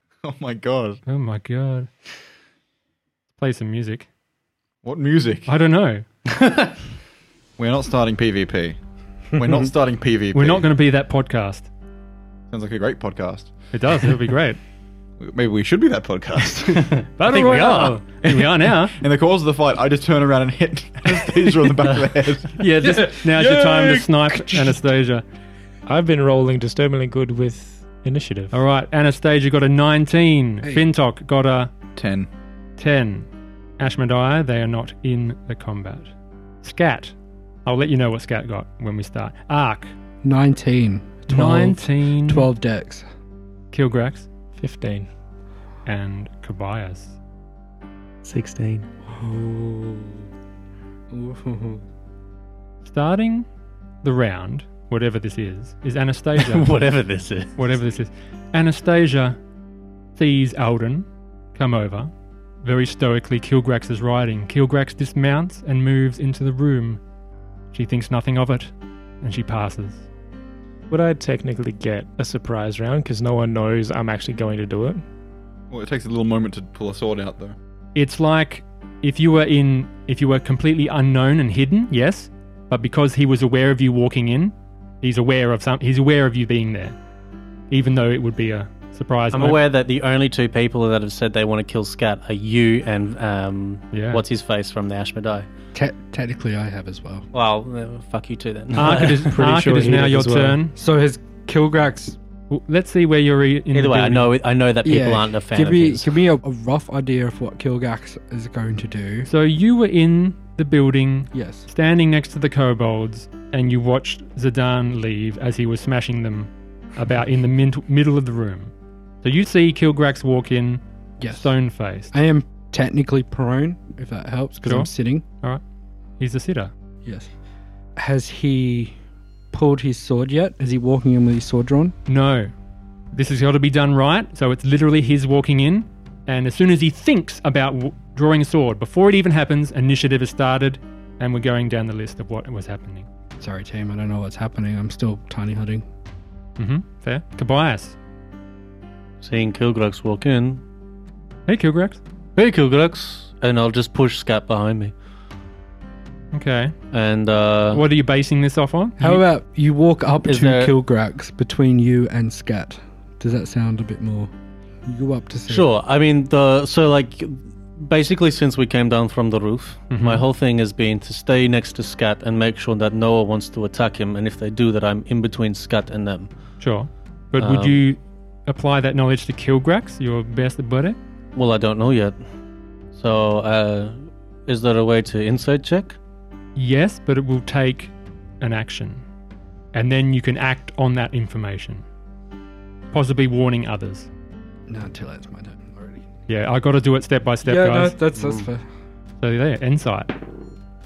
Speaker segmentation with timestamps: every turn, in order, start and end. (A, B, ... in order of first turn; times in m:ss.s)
0:00.2-0:01.0 A
0:01.1-0:01.9 B
0:03.4-0:04.1 B
0:04.8-0:05.5 A
0:05.5-0:06.0 B
0:06.3-0:06.7 C
0:07.6-0:08.8 A
0:09.3-0:10.6 A
0:10.3-0:11.7 B
0:12.5-0:13.5 A
0:13.7-0:14.6 B
0:15.2-0:17.0 A
0:16.8-0:18.0 C
0:17.2-0:19.0 B
0:19.0-0:22.6 A
0:22.6-0:25.2 B
0:22.9-0:24.8 D
0:25.9-0:28.6 E
0:28.5-0:31.7 B
0:32.0-0:32.3 A
0:32.8-0:33.3 B
0:33.8-0:36.1 B
0:36.6-0:37.1 B
0:37.6-0:39.9 B
0:40.2-0:43.0 D
0:41.3-0:42.5 B
0:43.7-0:44.3 B
0:44.6-0:45.1 E
0:45.9-0:47.2 B
0:48.2-0:48.9 C
0:49.1-0:50.3 D
0:51.1-0:51.8 D
0:52.8-0:53.5 B
0:54.0-0:56.7 B
0:56.4-0:57.6 C
0:57.6-0:59.4 B
1:00.1-1:02.1 B
1:02.6-1:07.0 B
1:07.7-1:08.7 B
1:09.2-1:10.1 B
1:10.9-1:15.0 E
1:15.7-1:17.6 A
1:18.0-1:27.0 B
1:27.7-1:29.6 B
1:29.3-1:35.5 C
1:33.9-1:34.2 B
1:35.7-1:37.2 D
1:37.3-1:39.3 C
1:38.8-1:40.7 B
1:38.8-1:40.6 E
1:40.8-1:42.2 D
1:42.5-1:44.3 B
1:43.7-1:46.1 C
1:44.8-1:49.3 D
1:49.2-1:58.7 B
1:51.3-1:51.7 D
1:59.2-2:02.2 B
2:01.2-2:01.5 D
2:02.1-2:05.2 D
2:06.2-2:06.7 B
2:07.0-2:07.3 D
2:08.0-2:08.9 D
2:09.5-2:12.0 D
2:12.1-2:12.5 B
2:13.1-2:23.1 B
2:23.4-2:25.8 D
2:26.6-2:28.0 B
2:29.2-2:30.6 C
2:31.5-2:32.0 B
2:32.4-2:34.9 C
2:36.3-2:36.7 B
2:36.9-2:37.8 C
2:37.7-2:39.2 B
2:39.0-2:44.3 D
2:40.3-2:40.7 C
2:44.8-2:45.7 D
2:45.5-2:56.3 C
2:49.9-2:50.2 B
2:56.6-3:01.0 B
2:57.4-2:57.8 C
3:01.4-3:02.2 C
3:02.9-3:06.0 C
3:06.6-3:09.0 B
3:09.7-3:11.8 B
3:12.9-3:14.1 B
3:14.7-3:16.0 D
3:16.3-3:18.0 B
3:17.4-3:18.6 D
3:19.2-3:20.1 B